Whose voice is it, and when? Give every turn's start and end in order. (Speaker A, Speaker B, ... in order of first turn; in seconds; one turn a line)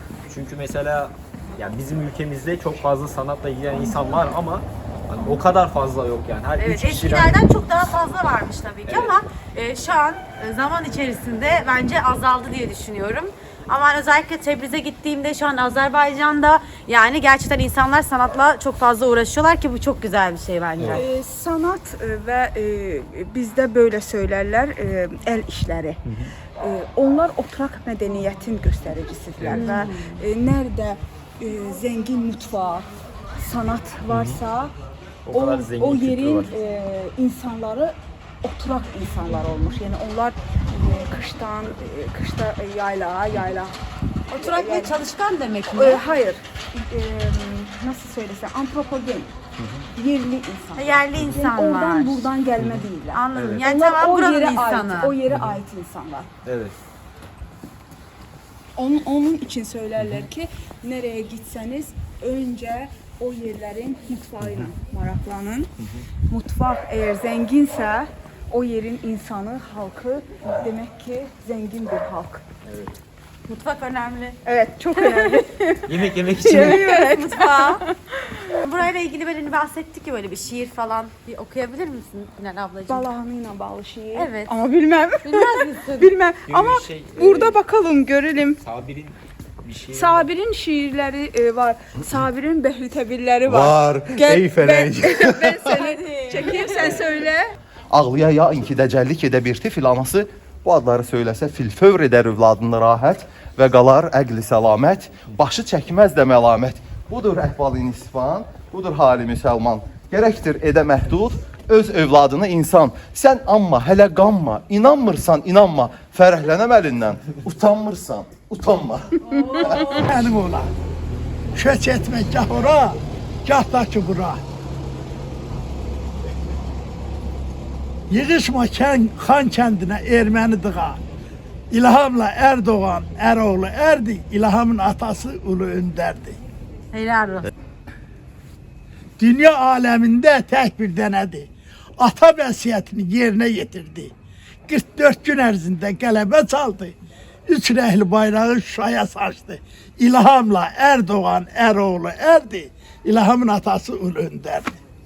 Speaker A: 0.3-7.4
Speaker B: 6.6-21.1
Speaker A: 8.8-9.2
Speaker C: 20.9-26.0
Speaker C: 26.6-32.9
Speaker A: 29.4-29.7
Speaker B: 29.5-30.1
Speaker C: 33.4-34.7
Speaker A: 34.1-34.4
Speaker A: 35.2-36.5
Speaker C: 35.3-43.8
Speaker C: 44.3-44.9
Speaker B: 44.3-46.0
Speaker C: 45.7-49.3
Speaker C: 50.0-56.3
Speaker B: 50.8-52.3
Speaker A: 52.6-53.6
Speaker B: 53.1-55.1
Speaker A: 56.4-56.7
Speaker C: 58.8-65.7
Speaker A: 60.0-60.2
Speaker A: 64.4-64.7
Speaker C: 66.3-72.4
Speaker A: 72.6-72.9
Speaker B: 73.5-74.4
Speaker C: 74.4-78.5
Speaker B: 74.9-75.4
Speaker A: 75.8-76.8
Speaker B: 76.6-77.8
Speaker B: 78.6-83.0
Speaker C: 82.9-88.6
Speaker B: 84.1-84.5
Speaker B: 85.2-86.1
Speaker A: 86.4-87.6
Speaker A: 88.6-90.3
Speaker C: 89.9-97.5
Speaker D: 93.5-95.8
Speaker D: 97.9-119.9
Speaker B: 119.3-120.1
Speaker C: 119.6-120.0
Speaker E: 120.0-120.7
Speaker E: 121.5-124.4
Speaker E: 128.1-131.0
Speaker E: 131.7-136.4
Speaker B: 136.9-137.5
Speaker E: 139.2-144.1
Speaker E: 144.7-146.9
Speaker E: 147.5-154.7